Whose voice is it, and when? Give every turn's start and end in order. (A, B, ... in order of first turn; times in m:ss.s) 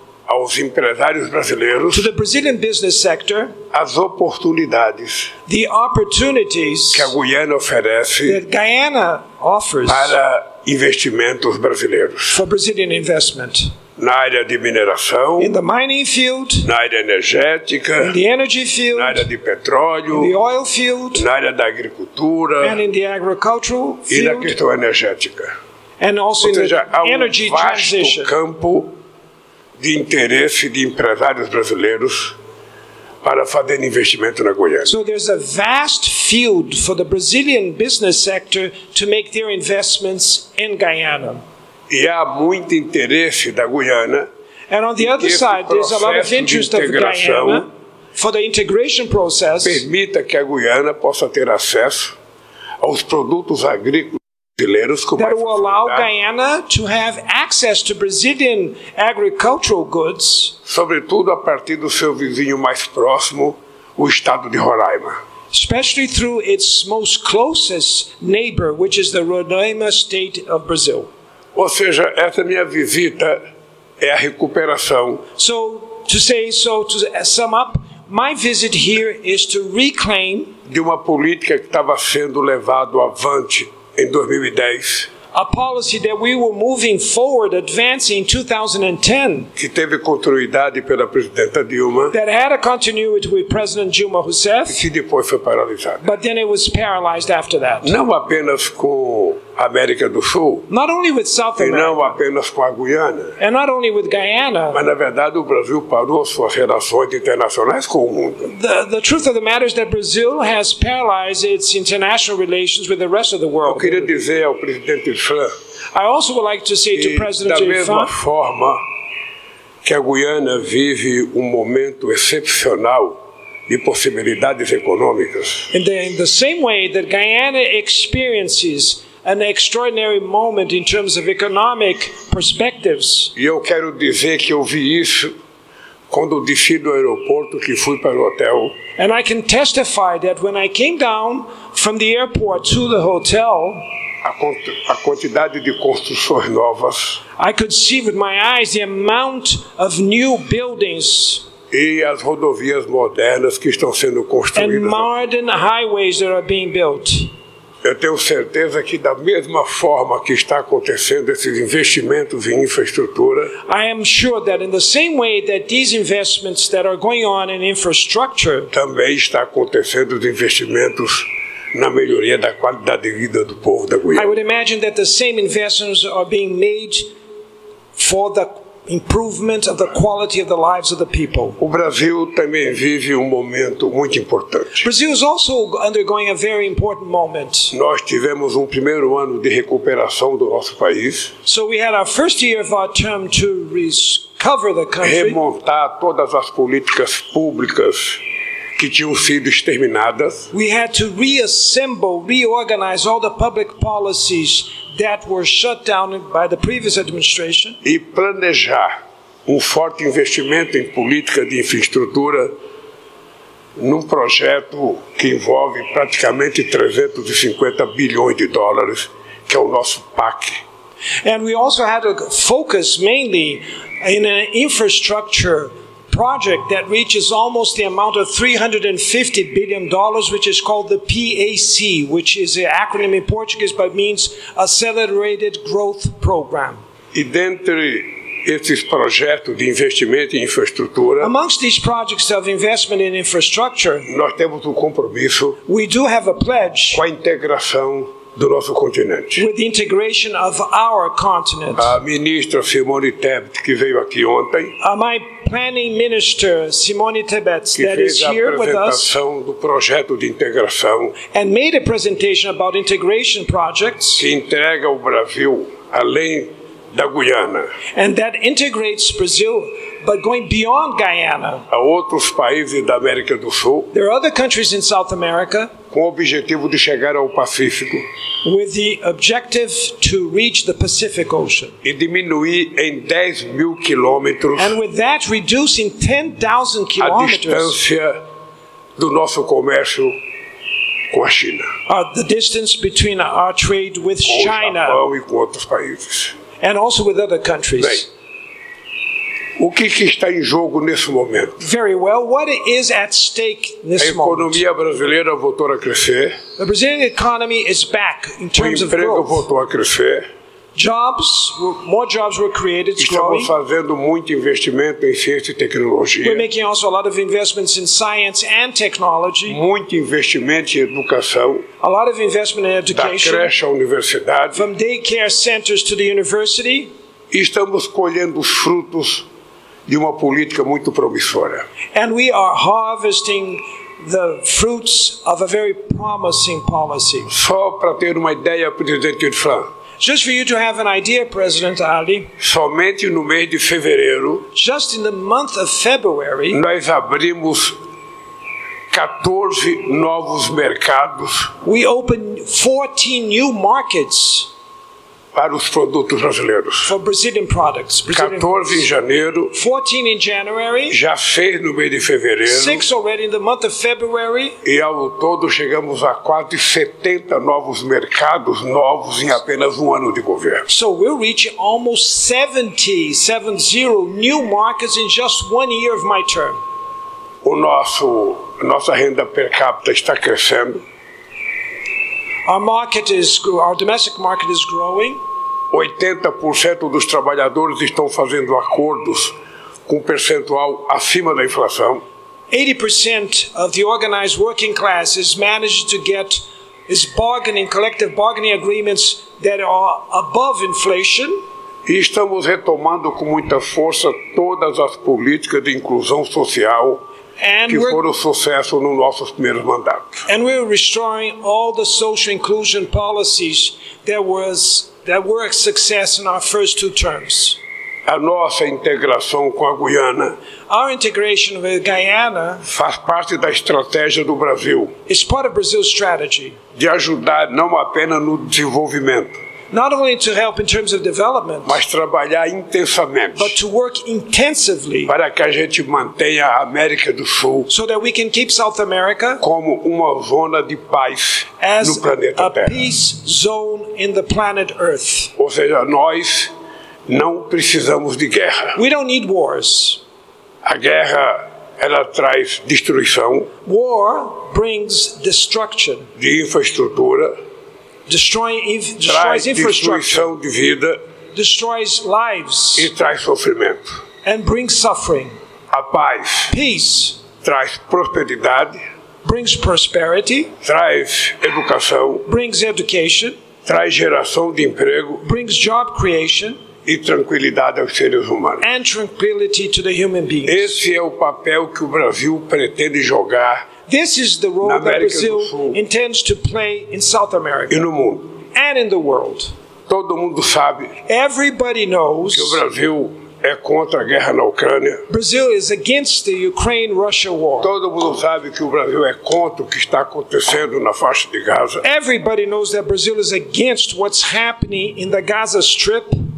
0:00.3-0:02.1 A
0:01.9-0:03.5 B
0:03.7-0:05.3 A
0:05.5-0:07.1 B
0:06.9-0:08.4 A
0:08.2-0:10.2 B
0:09.9-0:12.4 A
0:12.3-0:13.7 B
0:14.0-0:15.6 A
0:15.4-0:16.7 B
0:16.6-0:18.1 A
0:18.0-0:19.2 B
0:18.9-0:20.3 A
0:20.1-0:21.2 B
0:21.1-0:22.8 A
0:22.6-0:24.5 B
0:24.1-0:25.5 A
0:26.0-0:28.3 B
0:26.4-0:28.9 A
0:29.8-0:32.4 A
0:33.2-0:34.9 A
0:34.8-0:41.4 B
0:41.9-0:44.3 A
0:44.7-0:49.8 B
0:45.0-0:47.6 A
0:49.6-0:52.2 A
0:52.8-0:56.1 A
0:55.2-1:00.5 B
1:00.6-1:05.2 A
1:05.5-1:11.1 B
1:11.5-1:13.4 A
1:14.0-1:15.2 A
1:15.4-1:20.5 B
1:20.7-1:25.1 A
1:25.3-1:29.5 B
1:29.6-1:32.2 A
1:32.1-1:34.8 B
1:34.7-1:36.0 A
1:36.0-1:37.9 B
1:37.8-1:40.7 A
1:40.7-1:42.2 B
1:41.6-1:43.4 A
1:43.4-1:44.8 B
1:44.7-1:48.5 A
1:48.4-1:54.1 B
1:53.6-1:55.5 A
1:55.9-1:58.1 B
1:56.9-1:58.8 A
1:59.8-2:05.7 A
2:05.7-2:13.3 B
2:13.3-2:15.3 A
2:16.1-2:18.8 A
2:19.0-2:23.8 B
2:24.2-2:27.2 A
2:27.4-2:31.4 B
2:31.7-2:35.1 A
2:34.5-2:37.3 B
2:37.8-2:43.5 A
2:43.6-2:48.7 B
2:48.7-2:54.3 A
2:54.1-2:57.1 B
2:58.0-3:01.6 B
3:01.6-3:04.9 A
3:04.8-3:07.7 B
3:07.7-3:11.3 A
3:11.4-3:15.4 B
3:15.0-3:18.2 A
3:18.8-3:20.5 A
3:20.5-3:27.8 B
3:27.8-3:28.9 A
3:29.4-3:32.5 A
3:33.8-3:40.6 A
3:41.2-3:56.8 B
3:57.1-4:01.3 A
4:01.2-4:04.1 B
4:04.0-4:05.6 A
4:05.6-4:07.0 B
4:06.9-4:09.4 A
4:09.3-4:11.9 B
4:11.8-4:14.8 A
4:14.8-4:19.1 B
4:17.7-4:21.2 A
4:21.3-4:24.2 B
4:24.2-4:27.7 A
4:27.9-4:31.6 B
4:31.7-4:33.9 A
4:33.9-4:35.7 B
4:35.9-4:38.0 A
4:38.4-4:41.7 B
4:41.8-4:44.8 A
4:44.6-4:47.8 B
4:47.0-4:48.2 A
4:49.0-4:50.2 A
4:51.1-4:51.7 A
4:51.9-4:55.0 B
4:54.2-4:56.3 A
4:56.6-4:58.1 B
4:57.8-4:58.0 A
4:59.6-5:01.6 A
5:01.6-5:04.6 B
5:04.0-5:06.4 A
5:06.6-5:09.4 B
5:08.6-5:10.2 A
5:10.7-5:13.5 B
5:13.0-5:16.4 A
5:16.2-5:19.6 B
5:19.5-5:21.6 A
5:21.8-5:23.5 B
5:22.9-5:24.6 A
5:24.5-5:26.9 B
5:27.3-5:29.2 A
5:29.9-5:31.6 A
5:31.9-5:37.3 B
5:37.3-5:39.7 A
5:40.0-5:42.3 B
5:42.4-5:44.4 A
5:44.5-5:46.6 B
5:46.5-5:47.8 A
5:48.9-5:51.5 A
5:51.6-5:54.5 B
5:55.3-5:56.9 A
5:56.8-5:58.9 B
5:58.1-5:59.5 A
5:59.5-6:01.0 B
6:00.9-6:02.8 A
6:02.4-6:04.6 B
6:04.6-6:10.6 A
6:10.7-6:16.6 B
6:17.4-6:20.8 A
6:22.4-6:25.2 B
6:25.7-6:29.3 A
6:29.9-6:32.0 A
6:32.5-6:41.4 B
6:41.8-6:47.0 A
6:47.4-6:48.0 B
6:47.7-6:50.2 A
6:50.3-6:57.6 B
6:58.0-7:00.4 A
7:00.7-7:02.6 B
7:02.6-7:04.9 A
7:05.1-7:06.6 B
7:06.8-7:09.3 A
7:09.7-7:11.8 B
7:11.6-7:13.6 A
7:13.4-7:15.1 B
7:15.0-7:17.7 A
7:17.7-7:19.4 B
7:19.4-7:22.8 A
7:21.6-7:25.3 B
7:25.4-7:26.5 A
7:27.1-7:28.8 A
7:28.7-7:30.0 B
7:30.6-7:33.5 A
7:33.6-7:36.1 B
7:36.2-7:37.3 A
7:38.1-7:40.3 B
7:39.0-7:41.0 A
7:41.3-7:42.9 B
7:42.8-7:44.0 A
7:44.2-7:45.3 B
7:45.7-7:46.5 A
7:46.5-7:47.2 B
7:47.4-7:48.8 A
7:49.2-7:50.5 B
7:50.6-7:52.2 A
7:52.2-7:53.4 B
7:53.6-7:55.2 A
7:55.2-7:56.6 B
7:56.8-7:58.6 A
7:58.6-8:00.8 B
8:00.4-8:03.7 A
8:03.9-8:07.8 B
8:04.6-8:05.8 A
8:07.7-8:08.3 A
8:08.4-8:09.5 B
8:09.9-8:11.0 A
8:11.1-8:12.6 B
8:12.3-8:15.0 A
8:15.1-8:17.7 B
8:17.6-8:21.8 A
8:21.8-8:26.1 B